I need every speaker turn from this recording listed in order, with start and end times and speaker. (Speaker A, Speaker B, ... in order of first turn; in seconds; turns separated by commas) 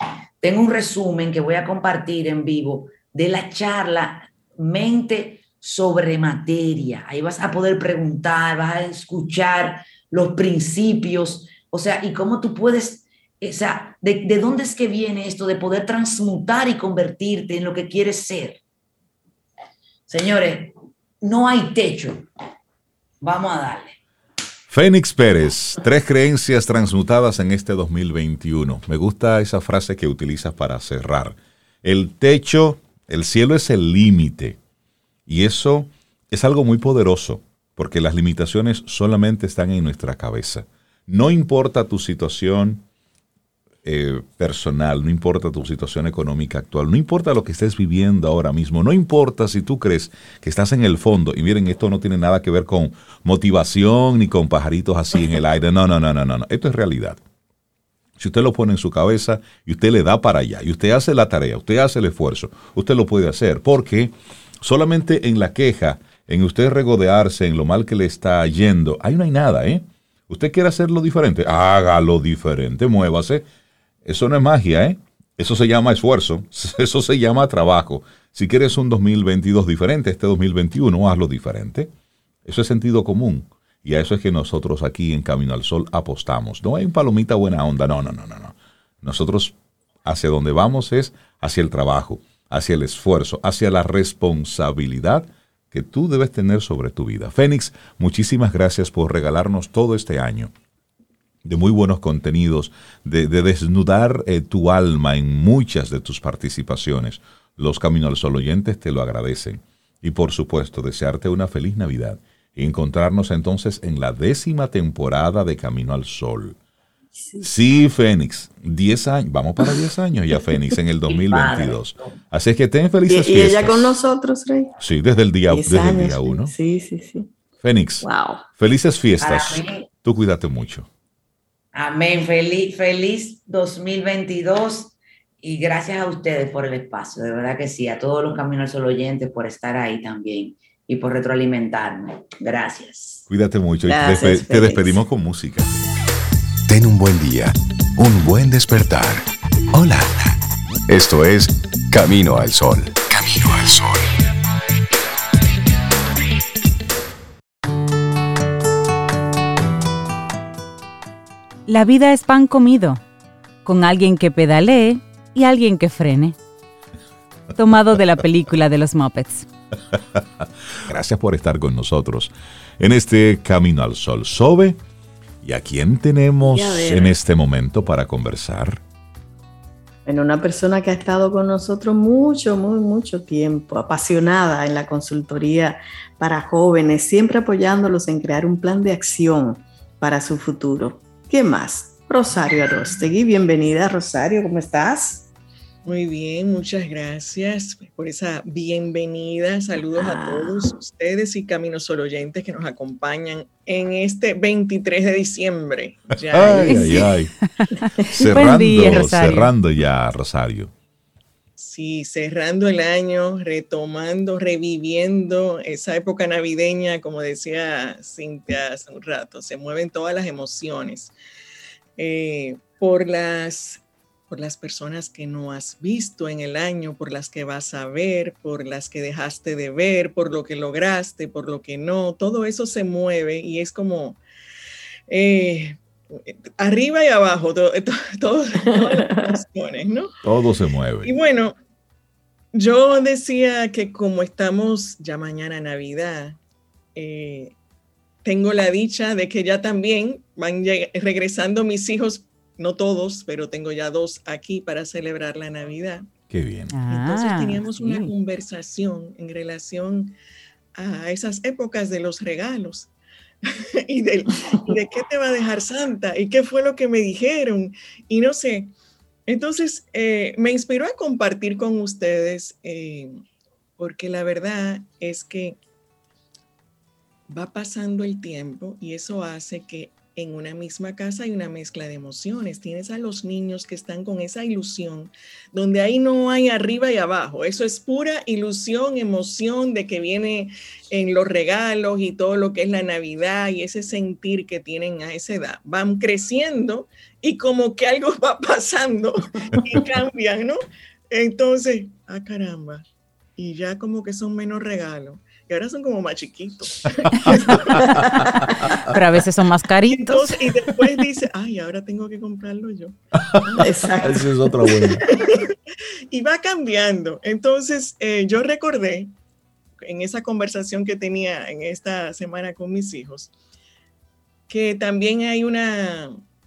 Speaker A: 0.4-18.6, Speaker A: 20.1-22.2, Speaker A: 23.2-24.0, Speaker B: 24.7-34.6, Speaker B: 35.3-42.8, Speaker B: 43.8-57.2, Speaker B: 58.2-73.4, Speaker B: 74.0-81.9, Speaker B: 82.4-100.5, Speaker B: 101.4-116.6, Speaker C: 117.2-117.5, Speaker B: 117.4-124.0, Speaker A: 121.1-122.1, Speaker C: 123.1-124.7, Speaker B: 124.8-126.5, Speaker C: 125.5-127.3, Speaker B: 127.6-128.1, Speaker C: 128.0-128.4, Speaker B: 128.6-130.9, Speaker A: 129.2-129.8, Speaker A: 131.7-143.2, Speaker B: 143.3-145.7, Speaker C: 143.9-145.0, Speaker D: 146.7-150.3, Speaker D: 150.9-154.0, Speaker E: 161.7-163.0, Speaker E: 163.6-166.3, Speaker E: 167.5-169.5, Speaker B: 170.8-174.8, Speaker B: 175.4-178.8, Speaker C: 176.4-177.2, Speaker C: 180.1-195.3, Speaker F: 195.8-207.1, Speaker C: 199.9-200.7, Speaker B: 206.3-207.3, Speaker E: 206.7-209.5, Speaker B: 208.1-210.7, Speaker F: 211.6-221.1, Speaker F: 222.0-234.2, Speaker F: 235.1-240.1, Speaker C: 238.7-239.4, Speaker B: 240.2-241.1, Speaker F: 241.0-241.6, Speaker F: 242.5-246.4, Speaker F: 246.9-247.5, Speaker F: 248.2-256.1, Speaker B: 256.3-256.7, Speaker E: 256.7-258.1, Speaker F: 256.9-260.1, Speaker F: 260.7-262.9, Speaker F: 263.4-268.7, Speaker F: 269.3-273.2, Speaker F: 273.8-275.6, Speaker F: 277.3-302.8, Speaker F: 303.4-308.0, Speaker B: 307.3-308.8, Speaker E: 308.8-310.3, Speaker F: 309.9-313.7, Speaker B: 313.2-315.1, Speaker C: 313.6-315.2, Speaker F: 315.1-315.5, Speaker F: 316.1-319.1, Speaker F: 319.8-323.3, Speaker F: 324.5-326.2